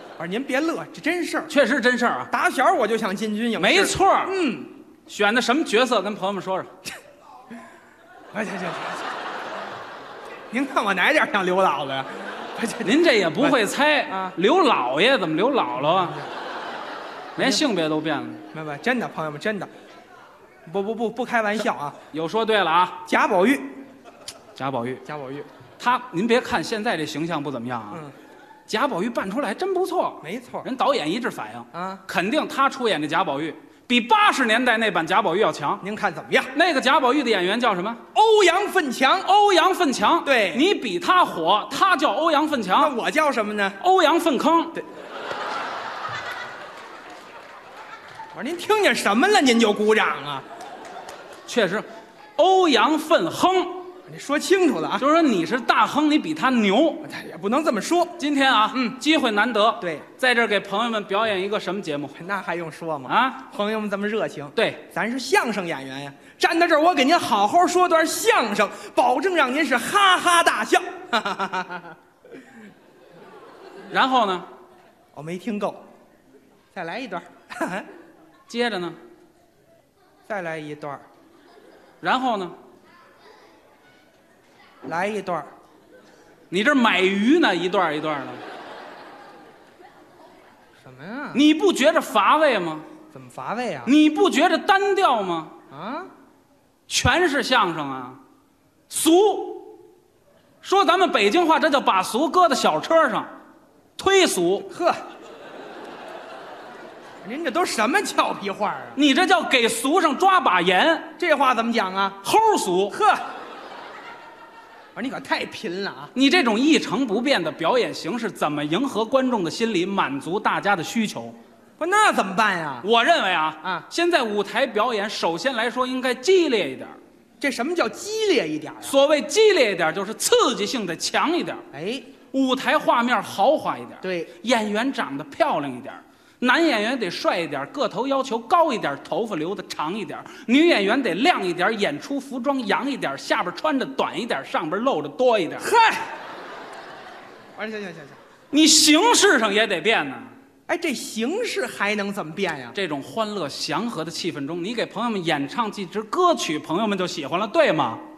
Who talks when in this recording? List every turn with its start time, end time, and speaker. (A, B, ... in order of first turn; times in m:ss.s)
0:00.2-0:01.5 A
0:01.5-0:02.3 B
0:02.3-0:04.7 A
0:03.6-0:04.4 B
0:05.1-0:06.7 B
0:08.3-0:09.1 A
0:10.5-0:14.3 A
0:12.8-0:16.2 B
0:15.9-0:16.3 A
0:17.3-0:18.4 B
0:17.4-0:17.6 A
0:18.5-0:19.7 A
0:20.6-0:22.0 A
0:22.1-0:23.0 B
0:23.1-0:23.6 A
0:24.6-0:25.0 B
0:25.0-0:25.5 A
0:25.8-0:28.0 B
0:28.7-0:35.8 B
0:30.2-0:30.7 A
0:31.7-0:32.0 A
0:35.8-0:36.5 A
0:36.5-0:38.0 B
0:38.1-0:39.3 A
0:39.2-0:42.9 B
0:40.2-0:40.6 A
0:42.8-0:43.8 A
0:43.8-0:44.8 B
0:48.3-0:50.4 A
0:51.5-0:51.8 B
0:52.4-0:53.9 B
0:54.1-0:55.0 A
0:55.0-0:57.1 B
0:57.0-0:58.2 A
0:58.2-1:02.2 B
0:58.7-0:59.0 A
1:02.2-1:12.0 A
1:03.1-1:03.4 B
1:04.5-1:04.8 B
1:13.9-1:14.5 B
1:15.1-1:15.8 A
1:16.7-1:17.9 A
1:18.5-1:19.0 B
1:20.3-1:21.0 A
1:22.0-1:22.5 B
1:24.8-1:25.5 A
1:26.5-1:28.4 B
1:30.8-1:31.4 A
1:31.3-1:32.9 B
1:33.1-1:33.9 A
1:33.8-1:35.5 B
1:35.7-1:36.1 A
1:36.9-1:38.2 B
1:38.9-1:39.8 B
1:40.6-1:43.3 B
1:44.0-1:44.7 B
1:44.7-1:45.0 A
1:47.2-1:49.0 A
1:49.0-1:51.1 B
1:51.2-1:52.2 A
1:52.2-1:53.0 B
1:52.9-1:53.2 A
1:54.9-1:56.1 A
1:56.1-2:01.4 B
2:01.8-2:02.9 A
2:02.8-2:07.0 B
2:03.6-2:03.9 A
2:07.4-2:09.0 A
2:08.8-2:11.6 B
2:11.7-2:12.1 A
2:12.3-2:25.7 B
2:14.0-2:14.3 A
2:25.6-2:26.1 A
2:27.6-2:28.2 A
2:28.5-2:30.3 B
2:30.7-2:32.8 A
2:32.7-2:38.0 B